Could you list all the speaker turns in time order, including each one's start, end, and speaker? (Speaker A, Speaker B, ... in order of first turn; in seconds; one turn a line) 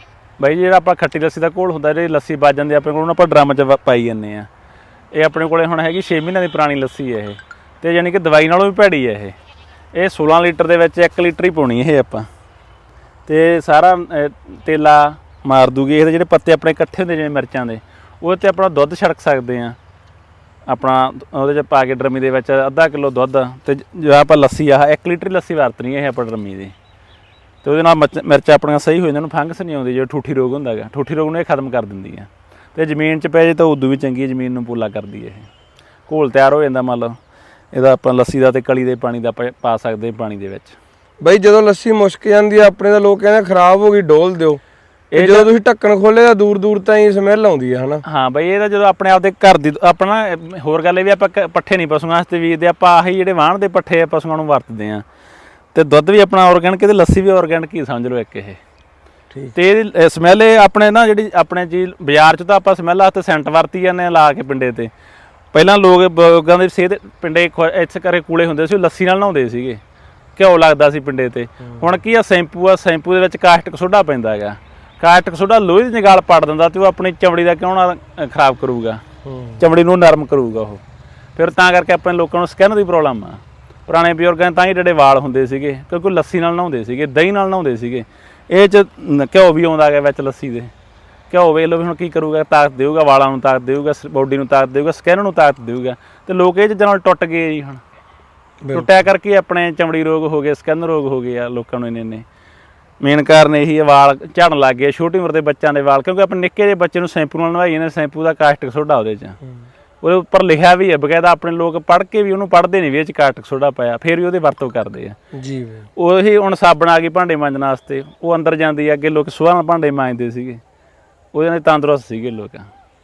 Speaker A: 0.4-4.5
Speaker A: 5.1-9.3
Speaker A: 9.9-12.3
Speaker A: 13.3-19.8
Speaker A: 20.7-26.7
Speaker A: 27.6-35.5
Speaker A: 36.1-37.1
Speaker A: 37.7-40.8
Speaker B: 41.2-44.6
Speaker A: 45.1-45.5
Speaker B: 45.1-48.0
Speaker A: 48.0-55.0
Speaker A: 55.7-58.6
Speaker A: 59.5-64.9
Speaker A: 65.5-69.8
Speaker A: 70.4-79.0
Speaker B: 71.6-71.9
Speaker B: 79.2-79.6
Speaker A: 79.6-80.8
Speaker A: 81.3-90.7
Speaker A: 91.3-97.8
Speaker B: 98.6-98.9
Speaker A: 98.7-102.2
Speaker A: 103.0-109.4
Speaker A: 110.0-115.2
Speaker B: 115.3-115.9
Speaker A: 116.0-120.6
Speaker A: 121.3-122.7